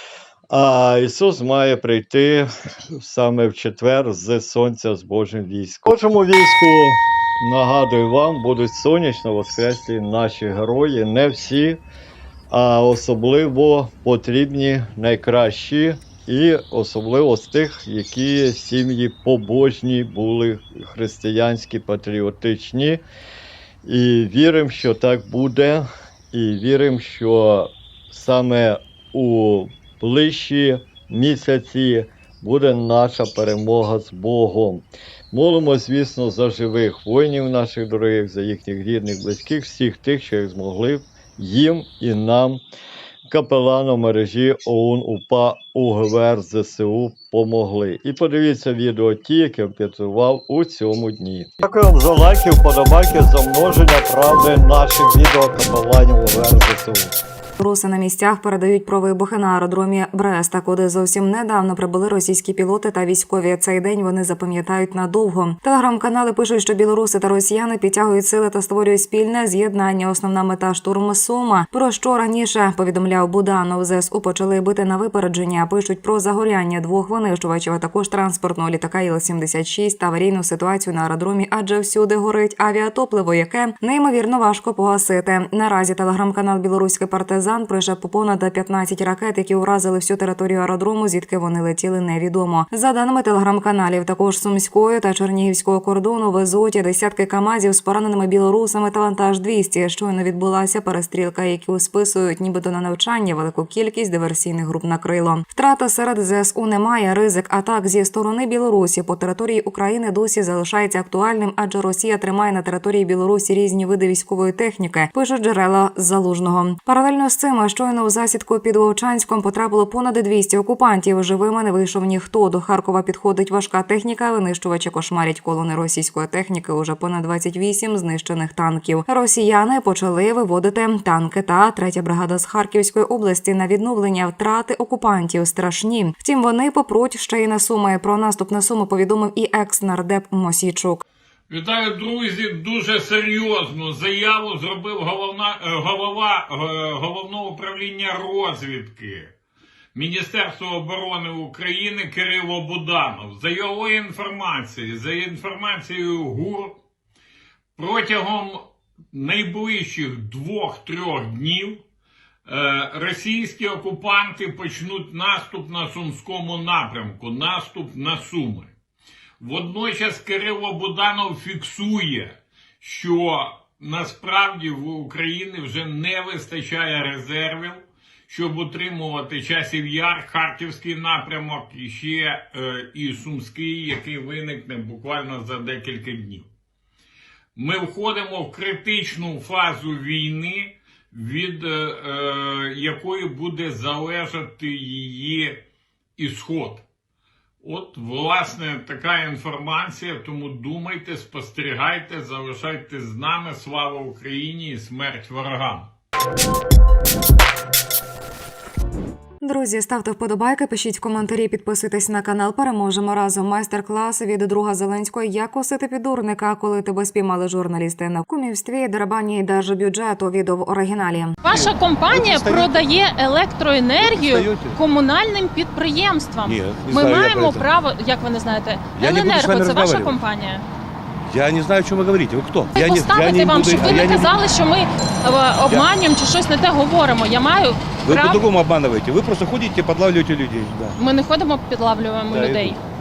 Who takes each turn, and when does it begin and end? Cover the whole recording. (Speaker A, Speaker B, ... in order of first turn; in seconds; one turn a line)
Speaker A: 0.5-11.8
Speaker A: 12.5-23.0
Speaker A: 23.8-42.6
Speaker A: 43.3-57.1
Speaker B: 57.6-141.0
Speaker C: 141.5-149.3
Speaker C: 149.9-156.8
Speaker C: 157.8-161.8
Speaker C: 162.4-168.7
Speaker C: 169.4-186.5
Speaker C: 187.6-195.6
Speaker C: 196.2-196.8
Speaker C: 197.6-205.9
Speaker B: 209.4-221.4
Speaker D: 221.4-230.6
Speaker E: 221.5-222.8
Speaker E: 224.0-224.8
Speaker E: 226.4-227.7
Speaker E: 228.9-230.2
Speaker E: 231.3-234.4
Speaker D: 232.7-238.4
Speaker E: 238.0-240.9
Speaker D: 241.0-242.8
Speaker E: 242.3-242.8